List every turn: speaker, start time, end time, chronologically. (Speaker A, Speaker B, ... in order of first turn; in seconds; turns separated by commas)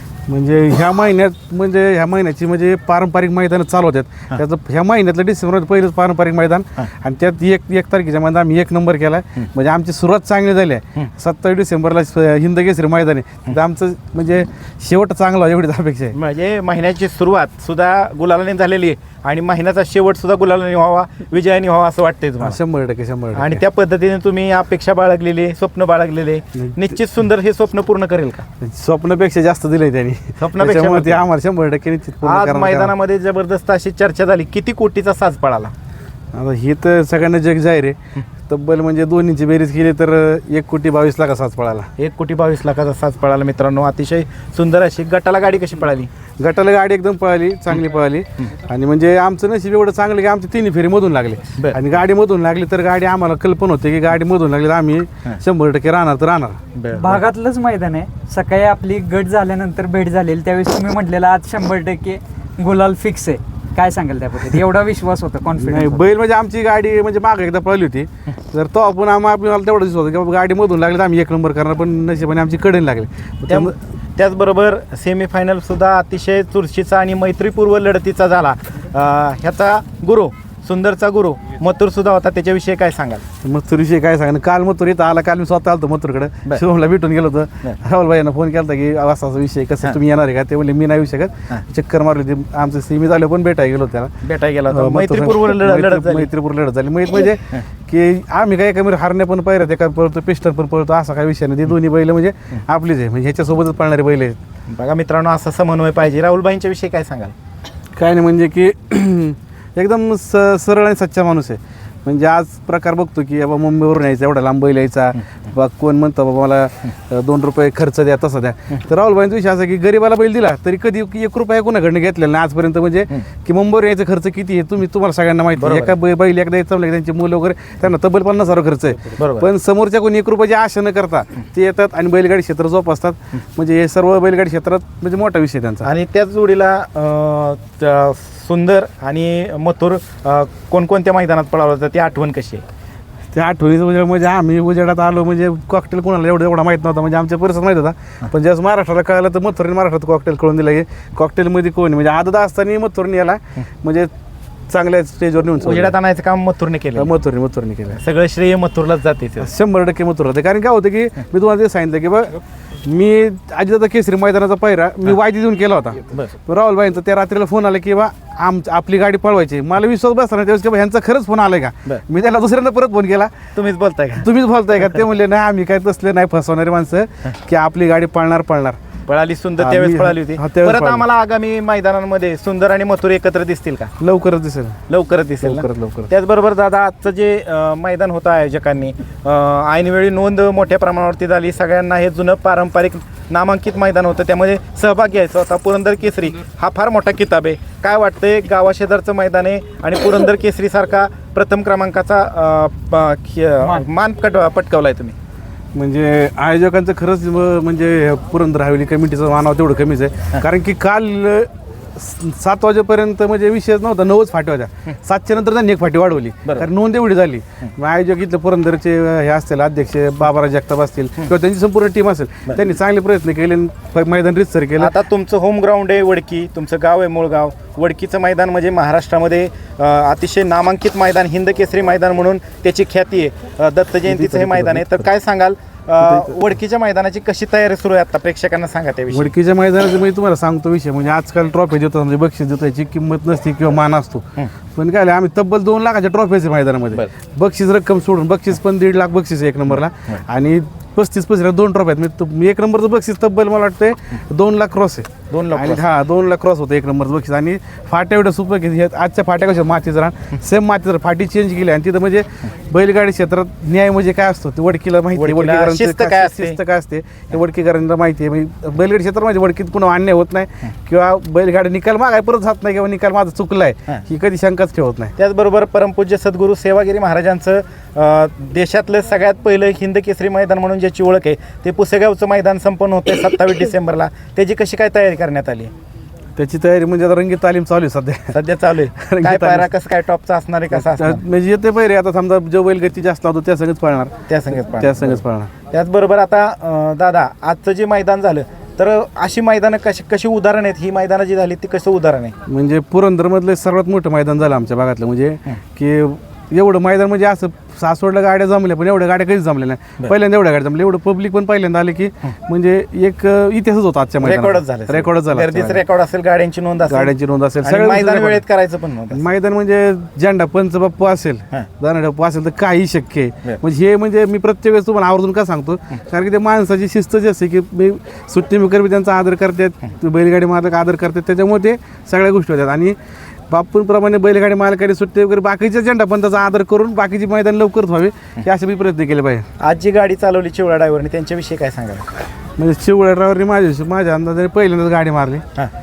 Speaker A: 0.3-16.1, Speaker B: 16.1-22.6, Speaker A: 22.4-23.6, Speaker B: 23.4-28.5, Speaker A: 28.6-32.9, Speaker B: 30.4-31.2, Speaker B: 32.2-35.7, Speaker A: 36.3-38.0, Speaker A: 38.5-41.9, Speaker B: 42.0-46.1, Speaker A: 46.4-56.6, Speaker B: 51.5-51.8, Speaker B: 56.8-57.2, Speaker C: 57.0-66.1, Speaker A: 65.6-73.7, Speaker B: 73.5-83.2, Speaker A: 83.4-94.1, Speaker B: 94.2-96.3, Speaker A: 94.7-104.4, Speaker B: 104.7-107.3, Speaker A: 108.0-135.9, Speaker B: 125.6-126.0, Speaker B: 129.1-129.5, Speaker B: 135.8-142.6, Speaker A: 143.3-154.1, Speaker A: 154.7-156.0, Speaker B: 155.5-157.1, Speaker A: 157.0-158.0, Speaker B: 157.9-159.5, Speaker A: 159.4-173.3, Speaker B: 173.6-174.3, Speaker A: 174.2-178.8, Speaker B: 179.1-183.9, Speaker A: 179.6-181.1, Speaker A: 184.0-184.8, Speaker B: 184.9-205.2, Speaker A: 185.4-186.1, Speaker A: 205.8-224.9, Speaker B: 224.8-239.3, Speaker A: 234.1-235.0, Speaker A: 239.1-244.2, Speaker A: 244.8-275.1, Speaker B: 255.3-255.9, Speaker B: 265.1-266.6, Speaker B: 275.2-285.7, Speaker A: 286.4-288.4, Speaker B: 288.3-291.2, Speaker A: 289.0-289.7, Speaker A: 290.7-294.1, Speaker B: 294.3-302.4, Speaker A: 294.8-295.5, Speaker A: 302.5-315.8, Speaker B: 314.2-319.3, Speaker A: 316.9-318.4, Speaker A: 319.1-333.0, Speaker A: 333.5-339.5, Speaker B: 339.6-342.3, Speaker A: 342.6-345.4